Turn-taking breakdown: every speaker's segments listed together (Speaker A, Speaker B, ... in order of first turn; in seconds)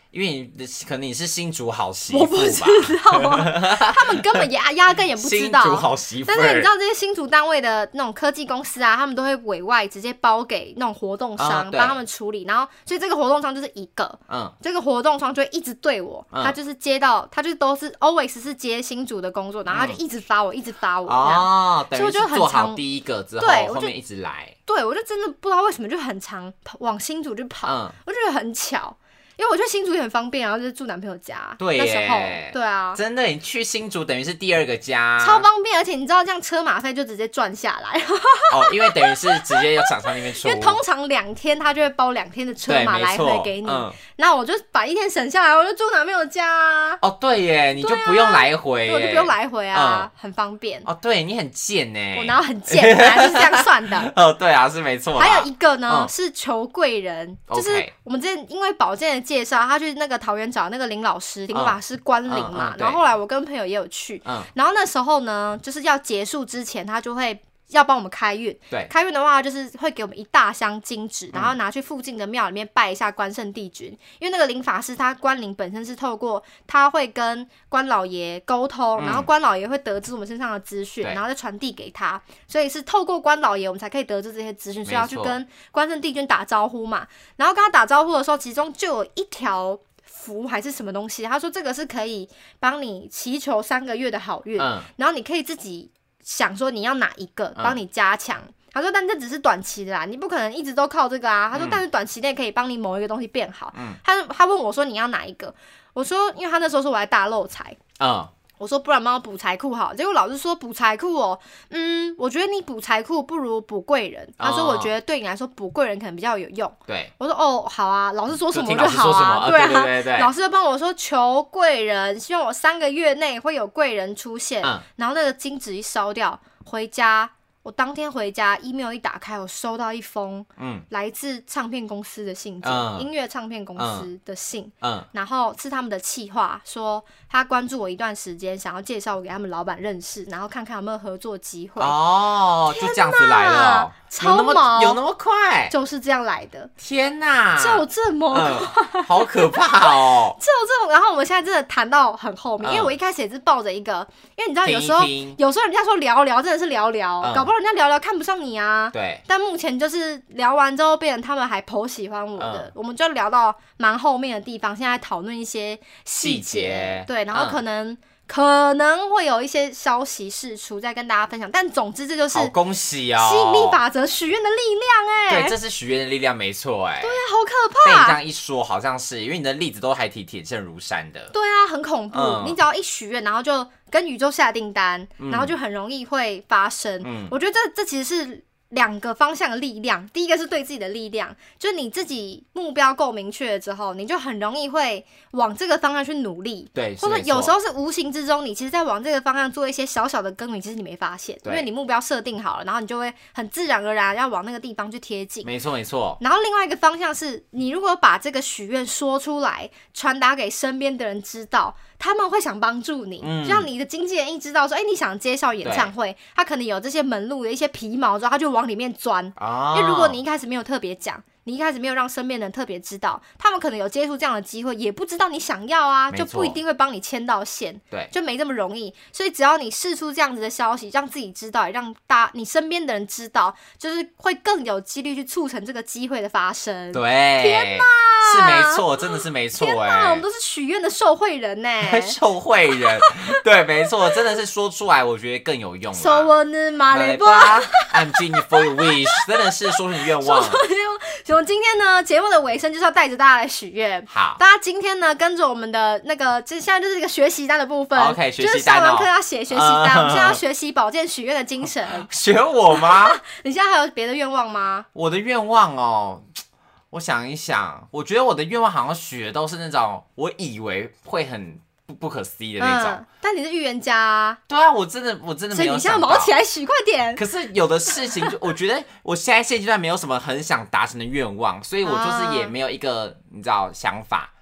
Speaker A: 0.1-4.4, 5.2-6.7, 11.4-12.0, 14.3-14.5, 19.7-20.0, 21.1-24.5, 27.6-27.9, 31.6-35.5, 38.5-40.8, 42.7-44.0, 47.0-50.1, 50.8-56.1, 57.5-57.9, 61.5-61.8, 62.3-63.0, 79.0-79.3, 84.8-85.3, 94.6-94.9, 101.5-101.8, 103.7-104.0, 108.0-108.3, 114.4-114.9, 116.9-117.1, 118.5-120.3, 130.6-130.8, 132.6-133.1, 133.8-134.1, 134.8-135.1, 141.8-145.7, 146.8-150.4, 152.6-152.9, 154.6-155.4, 157.2-157.5, 158.9-159.2, 162.4-162.7, 166.2-167.6, 172.3-173.8, 175.3-177.2, 177.8-181.3, 182.1-182.6, 185.2-185.5, 187.0-187.3, 196.7-197.5, 205.4-206.2, 213.2-213.7, 215.6-215.9, 219.4-220.2, 226.1-226.6, 236.9-240.2, 241.8-246.3, 246.9-250.6, 254.1-254.4, 257.9-260.4, 261.9-263.2, 264.9-266.3, 266.9-273.0, 274.5-276.3, 277.1-284.3
Speaker B: 2.1-22.8, 23.4-23.9, 24.7-33.0, 35.2-47.0, 47.8-50.9, 52.1-54.1, 55.1-107.8, 108.6-141.9, 142.7-145.0, 145.7-146.7, 147.6-172.5, 173.2-175.6, 177.0-178.2, 181.3-205.5, 206.2-242.2, 243.0-243.3, 245.9-262.1, 262.7-264.9, 272.6-274.4, 275.5-277.2, 277.9-278.3, 281.8-282.5